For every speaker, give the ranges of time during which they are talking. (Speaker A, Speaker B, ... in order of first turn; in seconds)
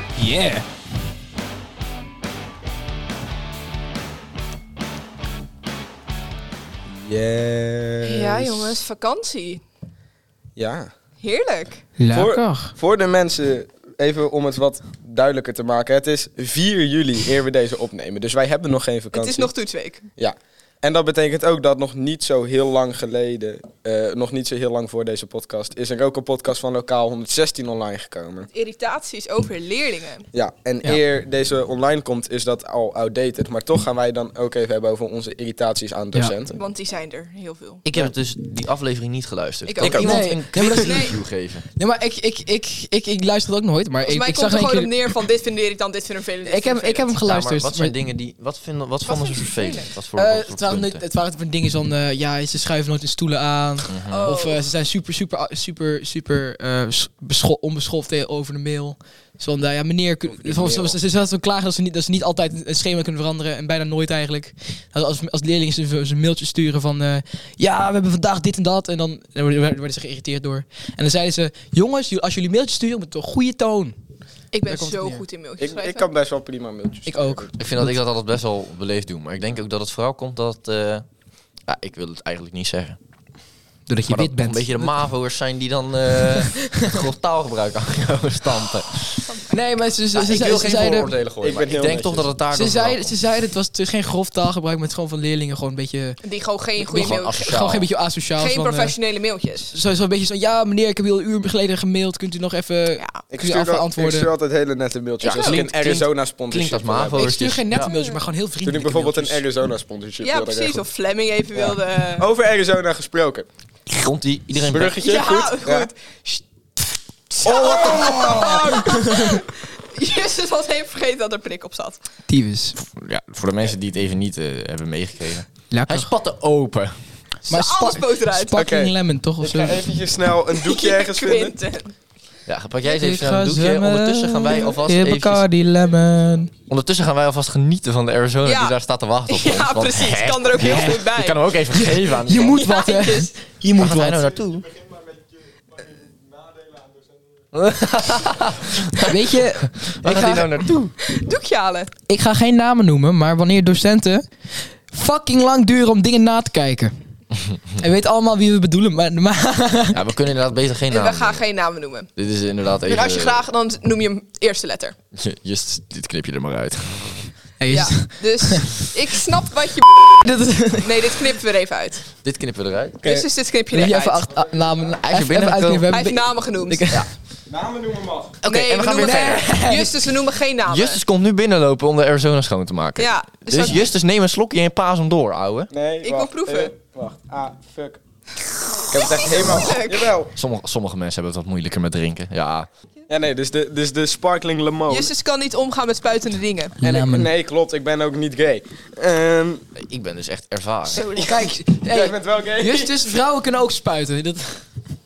Speaker A: 0.2-0.7, 12.0-12.8, 40.0-41.1, 41.8-44.9, 46.5-47.9, 50.1-74.0, 74.7-75.2, 77.1-77.5, 83.9-85.0, 86.4-87.0, 89.5-91.1, 92.5-96.2, 96.8-99.0, 99.7-104.3, 105.2-106.1, 107.2-109.4, 118.6-119.4, 122.3-122.8, 125.7-126.1, 127.5-129.9, 132.9-136.5, 140.6-141.1, 141.7-144.4, 149.1-150.9, 152.1-154.3, 154.9-156.9, 157.8-160.0, 167.6-168.9, 170.1-171.2, 173.0-177.1, 178.9-180.1, 196.8-197.3, 200.9-204.6
Speaker B: 6.9-8.8, 10.6-10.9, 12.1-19.5, 20.2-28.5, 30.3-36.6, 39.8-40.2, 60.3-61.0, 75.6-77.5, 91.4-92.3, 103.3-107.3, 108.6-110.8, 111.5-113.5, 114.6-115.9, 117.4-119.2, 128.6-131.6, 144.6-147.1, 177.5-178.4, 185.7-188.0, 188.9-190.3, 193.1-195.1, 196.8-199.6, 201.2-203.0
Speaker C: 8.0-9.6, 11.2-11.9, 19.1-20.1, 28.5-30.3, 36.5-37.8, 39.7-41.2, 44.1-47.2, 49.1-49.9, 54.1-54.6, 74.5-76.1, 89.3-89.5, 96.2-97.4, 98.4-99.7, 105.2-105.6, 107.8-108.2, 110.2-112.3, 115.0-116.4, 117.3-122.0, 127.5-128.6, 130.6-131.9, 138.4-138.8, 139.3-141.5, 142.5-143.3, 151.1-151.9, 160.9-162.1, 162.8-164.9, 167.7-172.1, 173.0-174.3, 175.9-176.9, 178.4-181.0, 183.0-183.9, 186.0-186.8, 188.7-190.1, 194.9-196.8, 200.9-201.2
Speaker D: 37.8-41.6, 47.2-51.0, 53.9-54.4, 77.6-81.1, 81.7-83.0, 84.1-89.3, 90.1-93.2, 96.9-97.9, 106.5-107.9, 113.9-115.0, 122.8-127.0, 132.5-135.4, 136.7-142.6, 143.8-144.7, 147.5-150.9, 159.9-161.4, 162.2-163.4, 165.2-167.3, 172.2-173.0, 175.1-175.9, 178.4-179.5, 180.7-185.7, 189.4-189.7, 190.3-192.7, 199.8-201.1